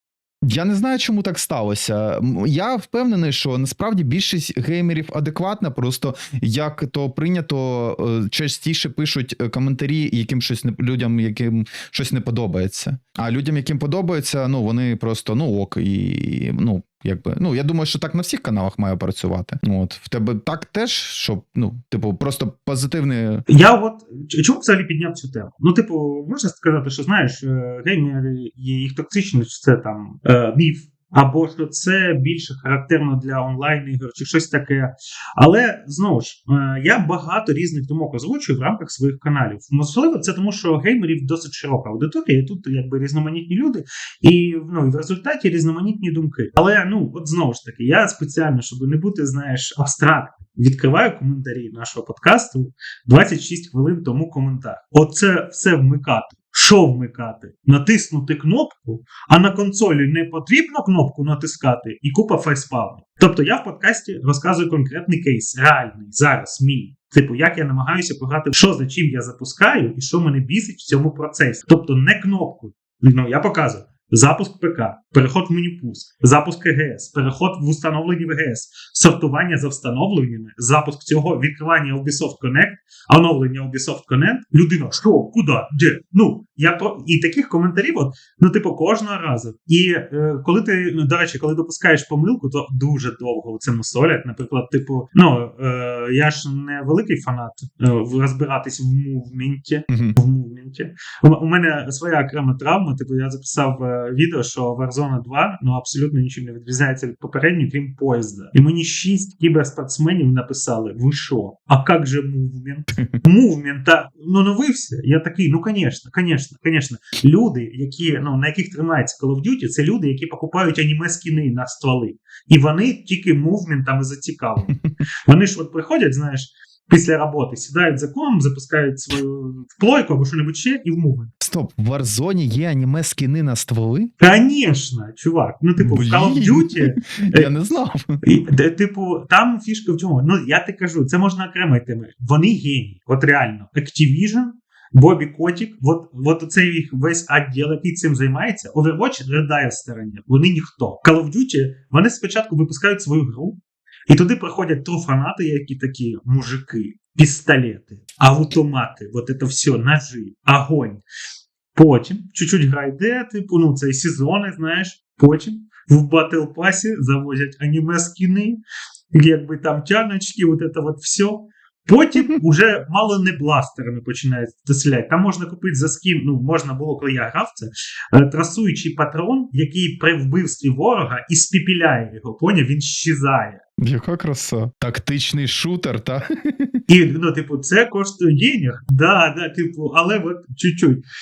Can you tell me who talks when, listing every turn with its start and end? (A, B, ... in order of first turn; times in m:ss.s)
0:00.4-0:23.4 A
0:23.5-2:11.3 B
1:39.9-1:40.2 A
2:11.4-2:14.1 A
2:14.2-2:17.5 B
2:15.8-2:18.2 A
2:18.2-2:33.6 B
2:34.1-2:41.0 B
2:41.7-2:48.6 B
2:49.1-3:03.6 B
3:03.8-3:06.8 A
3:06.9-3:11.0 B